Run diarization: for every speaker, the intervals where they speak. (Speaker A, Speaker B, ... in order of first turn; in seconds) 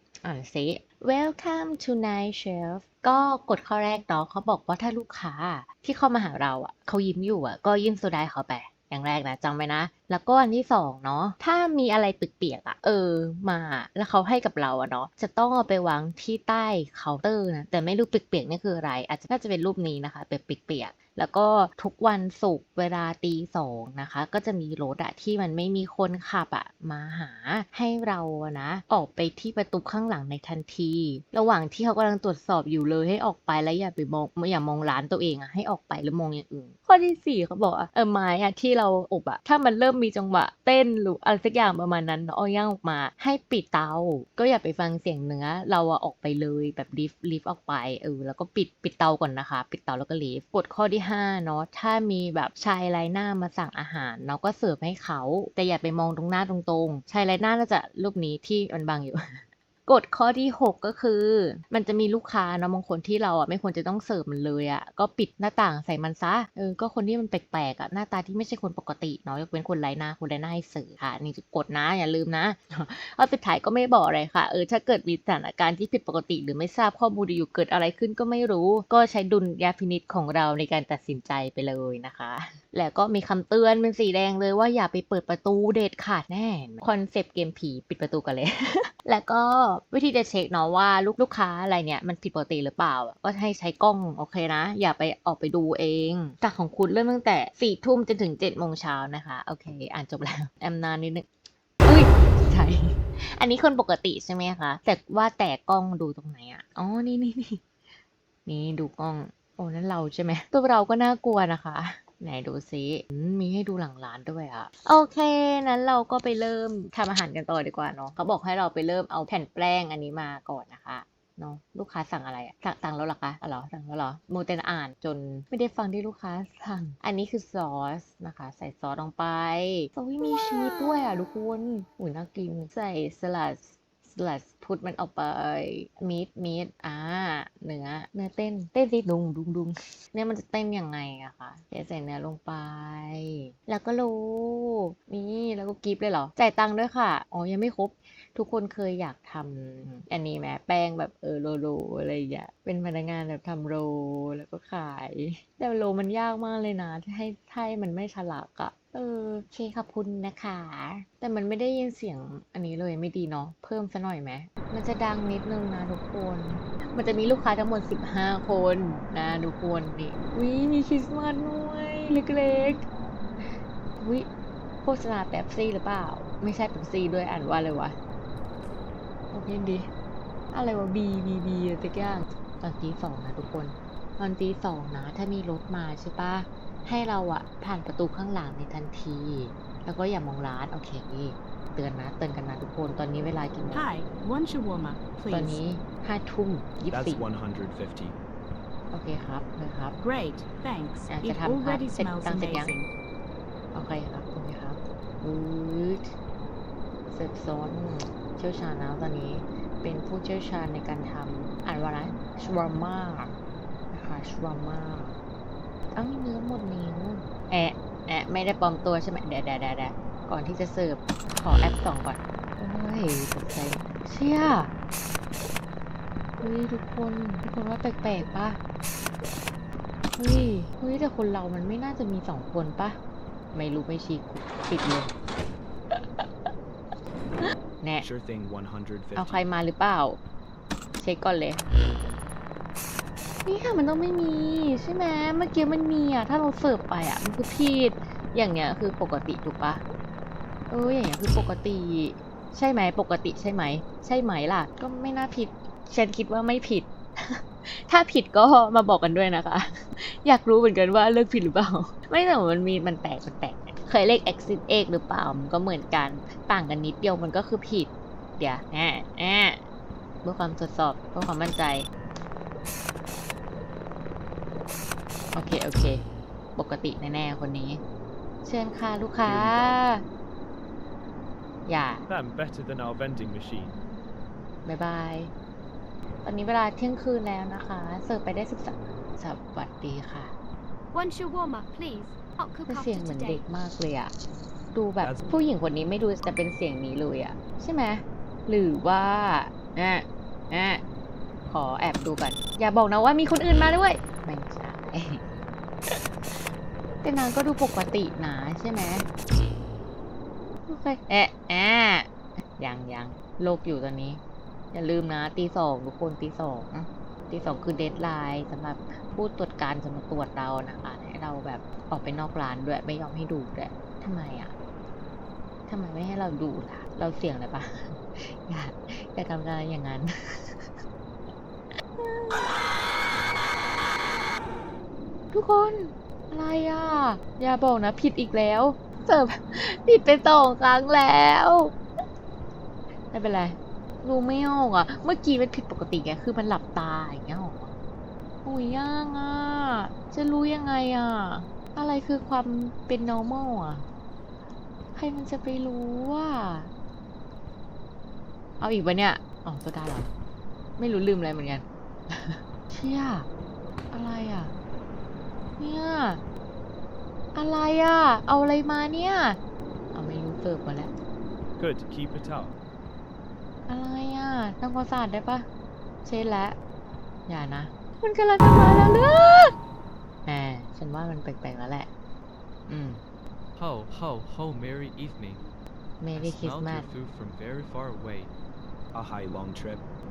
Speaker A: 0.2-101.3, 101.8-107.6, 108.5-172.8, 174.0-174.3, 174.8-178.0, 179.3-179.9, 180.5-193.9, 195.3-197.2, 198.9-199.9, 201.1-202.8, 203.7-206.1, 207.1-213.3, 213.9-215.2, 215.9-224.7, 226.4-228.6, 230.2-233.0, 233.5-235.1, 235.9-236.5, 239.1-240.2, 241.0-241.6, 243.4-249.8, 250.7-269.6, 270.2-271.9, 275.3-276.0, 276.6-277.8, 278.4-280.0, 281.6-282.1, 284.6-285.3, 286.2-290.3, 292.7-294.1, 294.7-300.8, 301.5-305.2, 305.9-306.4, 307.0-309.1, 310.7-314.2, 314.7-324.5, 325.7-330.8, 332.0-332.6, 335.3-341.8, 343.1-347.7, 348.4-353.9, 354.9-356.7, 358.6-360.1, 360.8-363.3, 363.9-364.5, 365.6-366.2, 367.3-369.4, 369.9-370.9, 373.7-375.4, 376.0-376.6, 377.3-379.5, 380.3-381.9, 382.7-383.0, 386.0-386.9
Speaker B: 193.7-195.6, 200.0-202.9
Speaker C: 196.9-198.2, 238.0-239.4, 279.2-279.8, 282.1-283.8, 295.0-295.3, 371.6-372.6, 388.9-389.9
Speaker D: 290.9-293.4
Speaker E: 383.6-385.4, 386.1-388.3